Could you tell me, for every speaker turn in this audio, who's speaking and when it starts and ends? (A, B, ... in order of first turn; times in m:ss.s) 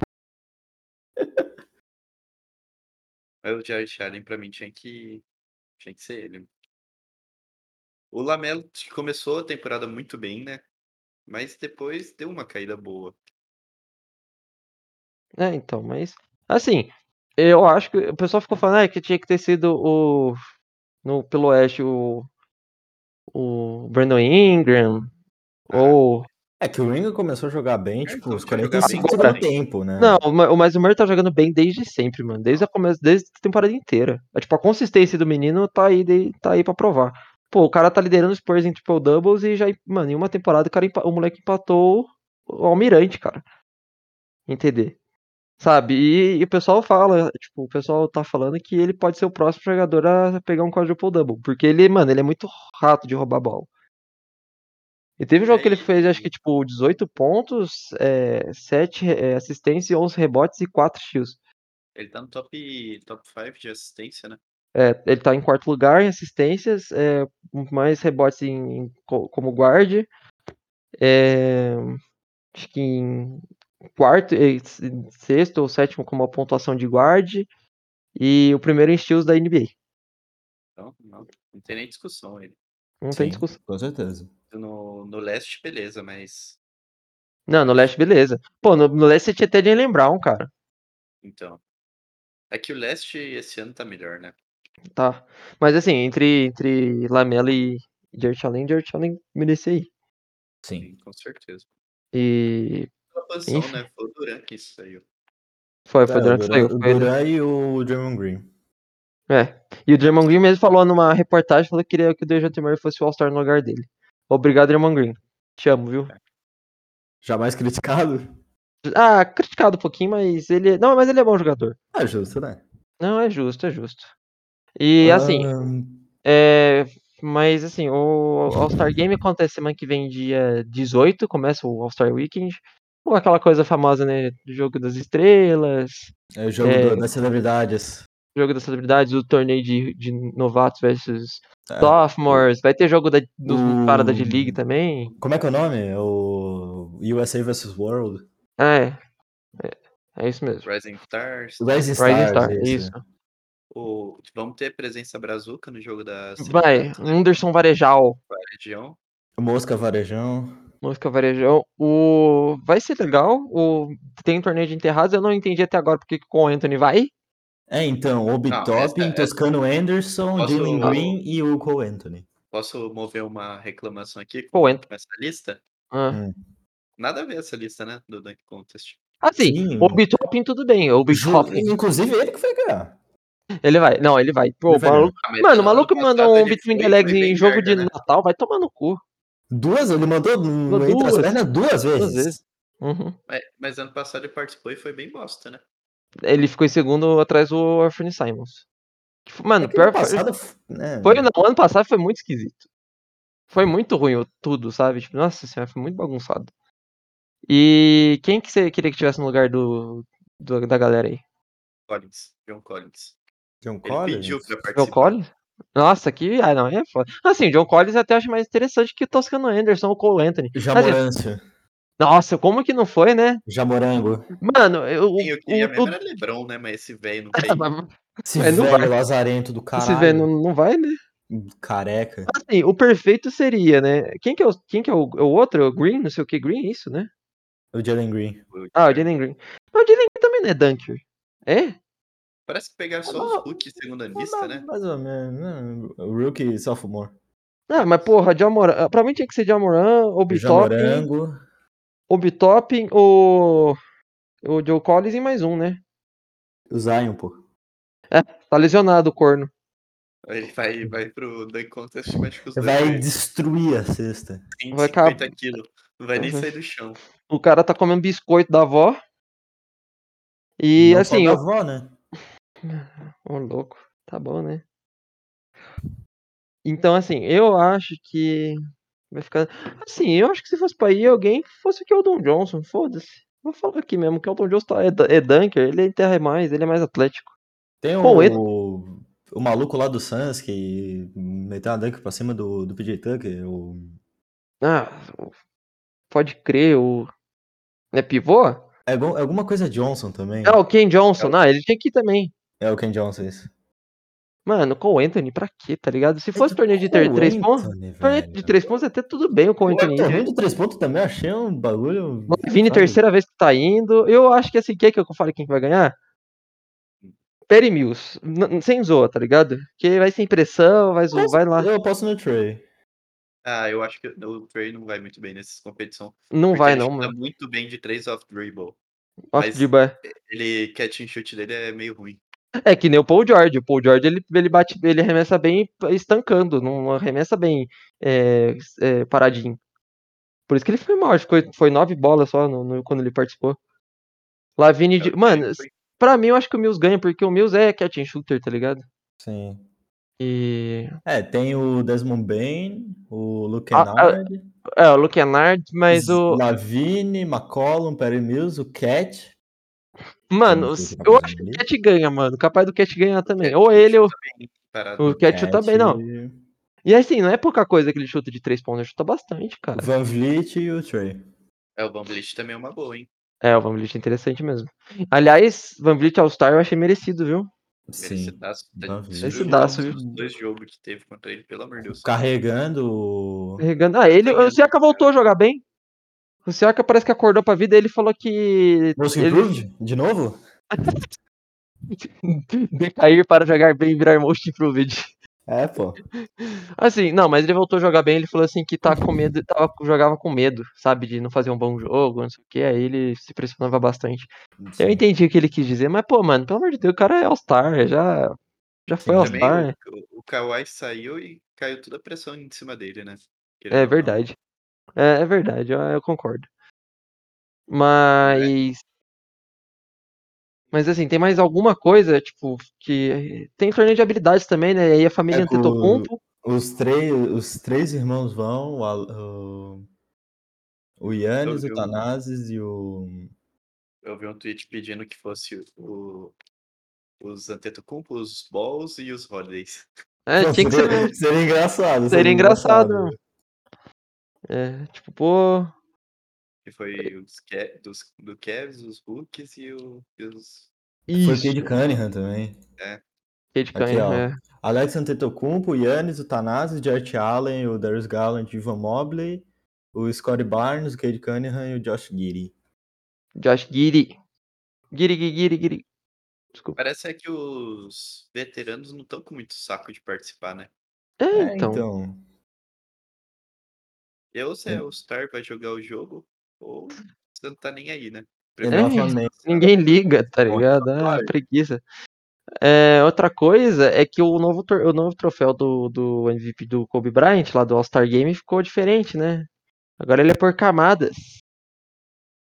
0:01.2-0:01.4 A
0:03.4-0:05.2 B
0:05.8-0:06.5 B
0:08.1-0:10.6 B
0:11.3-0:13.2 B
0:15.4-0:20.4 C
0:21.0-0:22.3 C
0:23.3-0:25.1 C
0:25.7-0:26.3 C
0:25.7-0:26.0 B
0:26.6-0:30.2 A
0:28.0-0:29.5 B
0:28.8-0:29.4 C
0:30.0-0:43.4 C
0:44.5-0:45.0 C
0:45.6-0:53.7 C
0:55.2-1:01.4 C
0:55.5-0:56.3 B
1:02.0-1:04.4 B
1:04.8-1:10.1 C
1:11.0-1:12.0 C
1:12.6-1:13.4 C
1:14.0-1:17.5 C
1:18.2-1:19.7 C
1:20.8-1:22.6 B
1:23.0-1:23.6 C
1:23.1-1:24.3 A
1:24.5-1:26.6 B
1:27.5-1:30.5 C
1:31.2-1:31.6 B
1:32.5-1:34.4 B
1:35.0-1:39.9 C
1:40.8-1:41.7 B
1:42.1-1:42.9 C
1:43.1-1:45.0 B
1:43.5-1:43.8 C
1:45.9-1:47.1 C
1:46.1-1:48.5 A
1:49.3-1:56.1 C
1:57.2-1:58.3 A
1:58.8-2:01.8 C
2:01.9-2:02.6 A
2:03.0-2:04.1 C
2:04.8-2:05.5 C
2:05.0-2:06.0 A
2:06.2-2:17.1 C
2:16.4-2:18.0 A
2:18.4-2:25.1 C
2:21.7-2:22.5 A
2:23.5-2:24.6 A
2:25.2-2:28.2 A
2:28.6-2:29.0 C
2:29.6-2:30.7 C
2:30.6-2:31.9 B
2:31.6-2:32.9 A
2:32.0-2:33.0 C
2:33.7-2:37.2 B
2:36.4-2:38.2 C
2:38.3-2:39.0 B
2:39.4-2:40.6 A
2:40.8-2:47.1 C
2:47.7-2:52.3 A
2:48.5-2:49.3 B
2:50.4-2:51.2 B
2:52.5-2:55.6 B
2:54.5-2:54.8 C
2:55.9-2:56.2 C
2:56.1-2:56.4 A
2:57.0-2:59.0 B
2:59.2-3:01.7 C
2:59.4-3:00.0 A
3:01.1-3:03.0 A
3:03.6-3:09.0 C
3:04.7-3:05.1 A
3:05.2-3:07.9 B
3:09.5-3:12.4 A
3:10.7-3:11.4 C
3:12.0-3:13.2 C
3:13.3-3:15.6 B
3:16.2-3:18.6 C
3:19.3-3:20.2 C
3:19.6-3:21.3 A
3:21.0-3:22.6 C
3:23.5-3:26.5 C
3:27.5-3:31.2 C
3:31.9-3:33.2 B
3:33.6-3:34.5 A
3:33.8-3:35.2 B
3:34.7-3:41.0 C
3:40.5-3:41.4 A
3:42.0-3:43.4 C
3:43.5-3:44.3 A
3:44.4-3:45.9 C
3:45.2-3:47.7 B
3:47.4-3:48.9 C
3:48.2-3:50.3 A
3:49.7-3:51.0 C
3:51.3-3:52.3 A
3:52.3-3:57.1 C
3:57.7-3:58.4 A
3:58.5-3:59.1 B
3:58.8-4:01.8 C
4:02.5-4:04.7 B
4:03.1-4:03.6 A
4:04.2-4:07.1 A
4:07.7-4:11.1 C
4:10.3-4:11.4 A
4:12.1-4:13.8 C
4:14.4-4:15.8 C
4:16.7-4:17.4 A
4:18.1-4:19.5 C
4:20.3-4:23.1 B
4:22.6-4:24.4 A
4:24.6-4:27.0 B
4:24.7-4:25.3 C
4:26.2-4:26.5 C
4:27.3-4:29.0 C
4:30.6-4:31.4 C
4:30.8-4:31.9 A
4:32.6-4:34.6 C
4:36.6-4:38.6 C
4:39.1-4:47.3 C
4:47.8-4:54.0 A
4:48.0-4:48.4 C
4:54.6-4:55.3 C
4:56.1-4:57.1 C
4:57.9-4:58.6 C
4:58.9-5:00.6 A
5:00.4-5:02.3 C
5:02.6-5:03.5 A
5:04.5-5:10.2 C
5:06.4-5:08.7 A
5:09.7-5:10.3 B
5:09.7-5:13.0 A
5:12.3-5:15.9 C
5:17.5-5:21.7 C
5:21.1-5:22.6 A
5:23.4-5:28.8 B
5:26.3-5:27.1 C
5:29.3-5:29.9 C
5:29.4-5:32.2 B
5:32.6-5:39.6 C
5:40.5-5:43.6 C
5:44.6-5:48.8 C
5:45.0-5:45.7 B
5:49.2-5:49.6 A
5:50.2-5:51.0 C
5:51.0-5:54.4 A
5:53.7-5:54.2 C
5:54.8-5:56.4 C
5:55.9-5:59.3 A
6:00.3-6:04.1 C
6:00.5-6:01.6 A
6:03.3-6:05.2 B
6:05.0-6:06.0 C
6:05.0-6:06.4 A
6:06.8-6:09.9 C
6:09.8-6:11.2 A
6:11.8-6:13.1 B
6:13.4-6:17.5 C
6:17.9-6:20.2 A
6:18.0-6:22.1 B
6:19.2-6:20.0 C
6:22.0-6:23.6 A
6:23.6-6:25.6 C
6:24.1-6:25.1 B
6:26.5-6:29.5 C
6:29.0-6:30.4 A
6:31.9-6:35.1 C
6:35.5-6:36.0 A
6:36.4-6:44.3 C
6:44.6-6:45.0 A
6:44.8-6:48.3 C
6:48.9-6:49.7 C
6:49.0-6:49.5 A
6:49.2-6:54.2 B
6:53.7-6:54.4 C
6:55.0-6:56.5 C
6:57.7-6:58.8 C
6:58.2-6:58.5 B
7:00.7-7:06.2 C
7:05.3-7:09.8 A
7:11.0-7:13.3 A
7:11.4-7:12.0 B
7:14.0-7:16.4 B
7:17.2-7:19.9 B
7:20.3-7:21.1 C
7:20.4-7:23.2 A
7:22.1-7:23.2 C
7:24.5-7:25.7 C
7:26.6-7:30.7 B
7:31.1-7:31.7 C
7:31.2-7:32.6 A
7:33.6-7:34.4 C
7:33.8-7:42.5 A
7:43.4-7:44.2 C
7:44.9-7:45.8 C
7:46.8-7:50.7 B
7:51.2-7:51.8 C
7:51.3-7:52.2 A
7:54.3-7:59.7 B
7:58.6-7:59.4 A
7:58.7-8:01.8 C
8:00.5-8:01.3 B
8:02.6-8:09.5 C
8:10.0-8:11.4 C